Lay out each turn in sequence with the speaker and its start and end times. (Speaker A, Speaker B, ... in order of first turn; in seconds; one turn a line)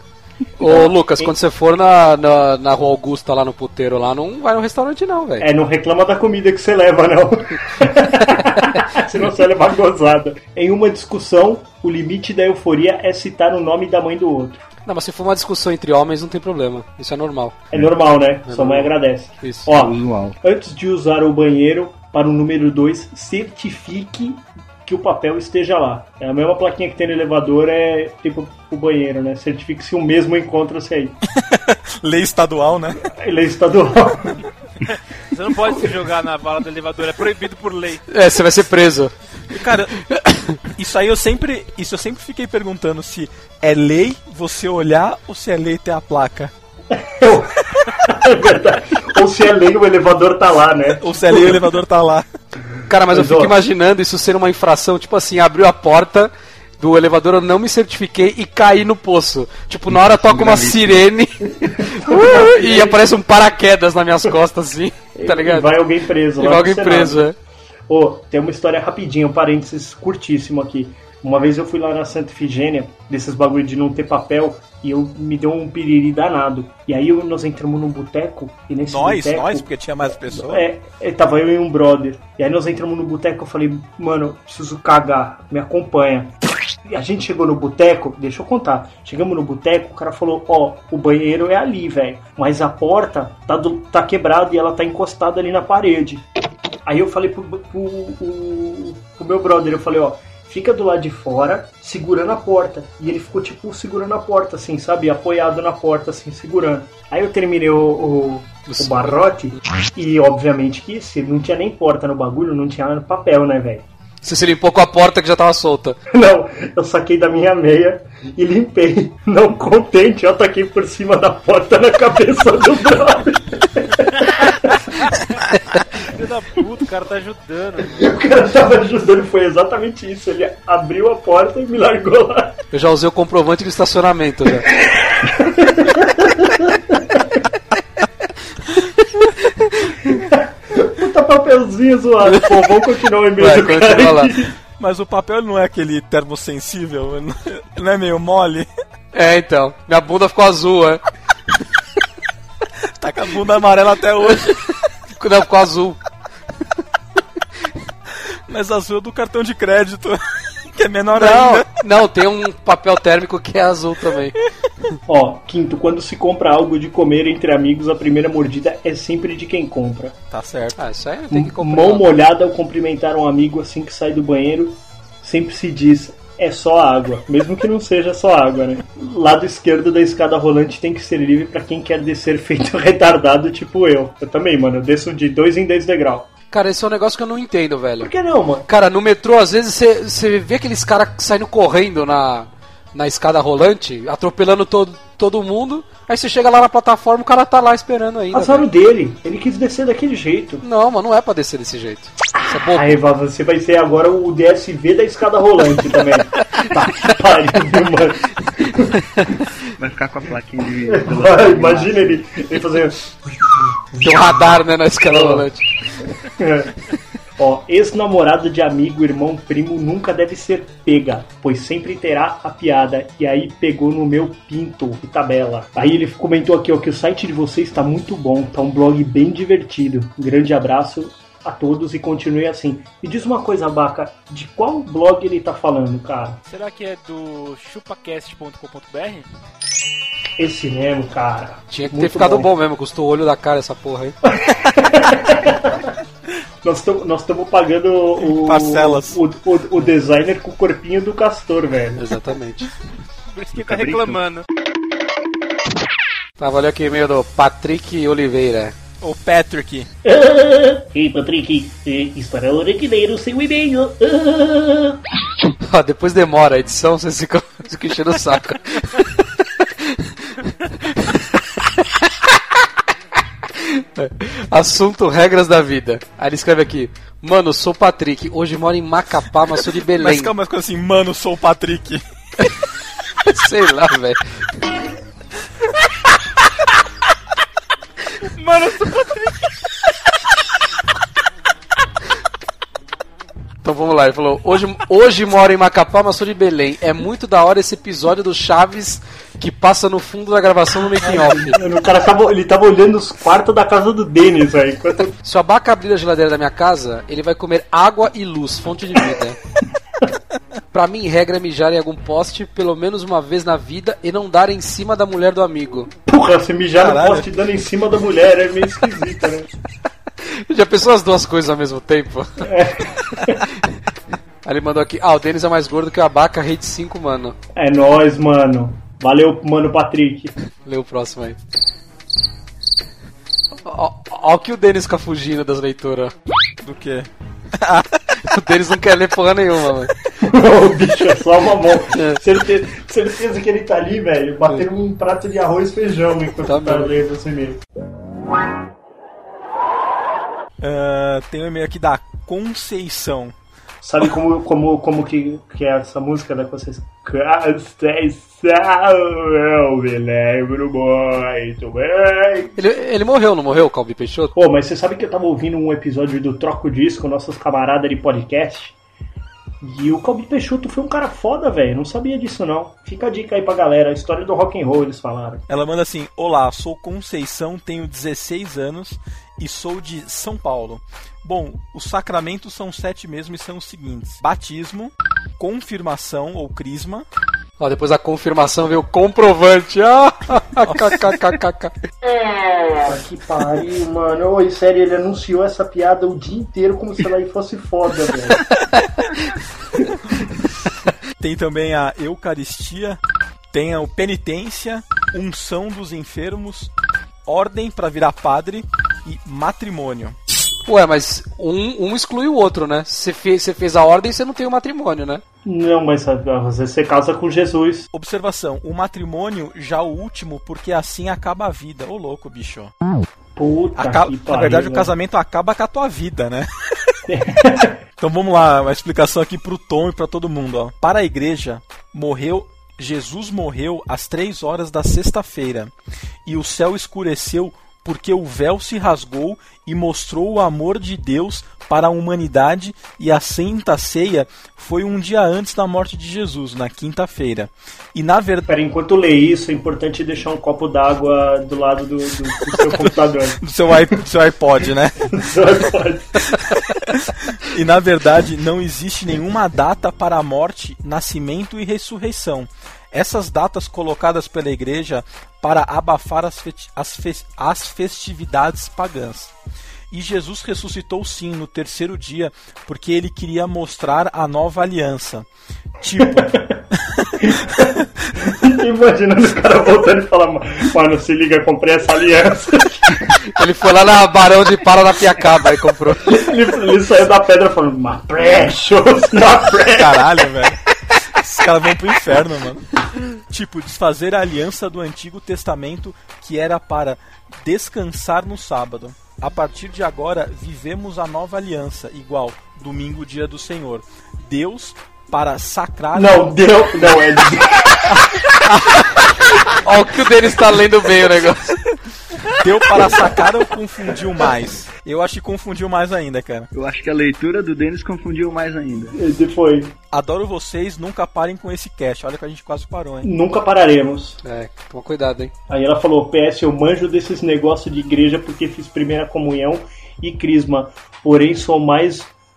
Speaker A: 0.6-5.5
Speaker B: 0.6-1.3
Speaker B: 5.4-14.6
Speaker A: 14.9-17.6
Speaker B: 17.7-31.2
Speaker A: 18.5-19.7
Speaker C: 19.7-20.4
Speaker D: 31.3-33.0
Speaker B: 33.0-34.4
Speaker E: 35.3-38.0
Speaker A: 38.1-39.1
Speaker D: 39.5-40.0
Speaker A: 40.1-40.6
Speaker D: 40.7-46.5
Speaker B: 46.9-51.6
Speaker D: 50.9-52.3
Speaker A: 52.9-65.8
Speaker B: 53.1-53.5
Speaker C: 59.9-61.0
Speaker B: 61.9-63.0
Speaker B: 65.2-67.2
Speaker A: 66.4-67.4
Speaker B: 67.9-79.7
Speaker D: 78.8-80.7
Speaker B: 80.2-86.3
Speaker B: 86.8-96.3
Speaker B: 96.8-113.9
Speaker A: 108.7-109.2
Speaker A: 114.2-116.0
Speaker B: 116.1-124.9
Speaker E: 125.9-128.1
Speaker B: 127.9-132.6
Speaker A: 132.7-134.7
Speaker B: 134.7-137.4
Speaker B: 140.1-144.6
Speaker A: 142.2-142.6
Speaker A: 143.4-144.3
Speaker D: 144.8-148.7
Speaker A: 149.1-151.0
Speaker D: 153.0-154.8
Speaker A: 155.2-156.0
Speaker D: 158.5-161.7
Speaker A: 161.2-164.4
Speaker B: 165.1-170.2
Speaker D: 170.3-170.8
Speaker A: 170.8-172.2
Speaker B: 171.3-186.3
Speaker A: 186.5-188.1
Speaker B: 188.0-188.7
Speaker A: 188.7-198.7
Speaker B: 198.3-200.6
Speaker A: 200.6-203.0
Speaker B: 202.5-209.0
Speaker C: 209.8-212.3
Speaker B: 210.9-213.1
Speaker B: 213.9-215.5
Speaker A: 214.0-215.7
Speaker B: 216.2-216.7
Speaker B: 217.4-236.4
Speaker E: 236.5-239.3
Speaker B: 240.4-242.5
Speaker A: 241.7-244.2
Speaker B: 244.3-245.9
Speaker B: 246.6-252.0
Speaker D: 248.2-249.2
Speaker A: 252.0-252.7
Speaker E: 253.3-254.5
Speaker C: 253.6-254.2
Speaker A: 256.4-258.7
Speaker D: 259.0-259.9
Speaker B: 260.0-265.0
Speaker A: 265.6-268.9
Speaker A: 269.8-270.1
Speaker A: 273.6-280.3
Speaker D: 279.9-282.0
Speaker A: 283.2-284.2
Speaker E: 288.2-289.5
Speaker A: 293.6-301.6
Speaker B: 301.0-305.1
Speaker A: 305.2-309.4
Speaker A: 310.7-315.9
Speaker B: 316.1-319.5
Speaker D: 316.7-317.3
Speaker A: 320.2-322.5
Speaker B: 322.4-323.4
Speaker A: 324.4-327.4
Speaker B: 327.6-330.3
Speaker A: 330.6-331.4
Speaker A: 333.6-336.1
Speaker D: 336.6-338.0
Speaker A: 338.2-339.9
Speaker B: 340.2-347.6
Speaker A: 341.9-342.2
Speaker A: 346.4-346.9
Speaker D: 350.6-353.3
Speaker B: 353.8-362.5
Speaker A: 362.6-364.3
Speaker B: 364.4-368.8
Speaker B: 369.6-375.4
Speaker D: 375.5-387.1
Speaker A: 387.6-391.8
Speaker D: 390.6-391.2
Speaker B: 392.9-398.5
Speaker D: 401.2-403.0
Speaker D: 403.5-406.7
Speaker D: 407.2-410.2
Speaker A: 410.7-415.2
Speaker B: 415.4-417.9
Speaker D: 417.9-422.7
Speaker B: 423.4-424.9
Speaker D: 423.8-426.5
Speaker B: 427.1-427.8
Speaker D: 428.0-435.7
Speaker D: 436.3-448.5
Speaker B: 448.5-453.4
Speaker D: 452.6-455.1
Speaker B: 455.0-456.4
Speaker D: 456.9-469.3
Speaker D: 469.9-475.3
Speaker D: 475.8-476.4
Speaker B: 476.0-476.6
Speaker B: 477.2-483.2
Speaker A: 483.3-486.2
Speaker B: 486.0-490.1
Speaker D: 489.7-506.4
Speaker B: 505.9-507.9
Speaker A: 509.2-511.6
Speaker D: 512.3-516.5
Speaker C: 516.5-519.0
Speaker B: 519.0-519.7
Speaker D: 519.9-523.1
Speaker B: 523.0-524.2
Speaker A: 524.2-525.3
Speaker B: 525.5-532.1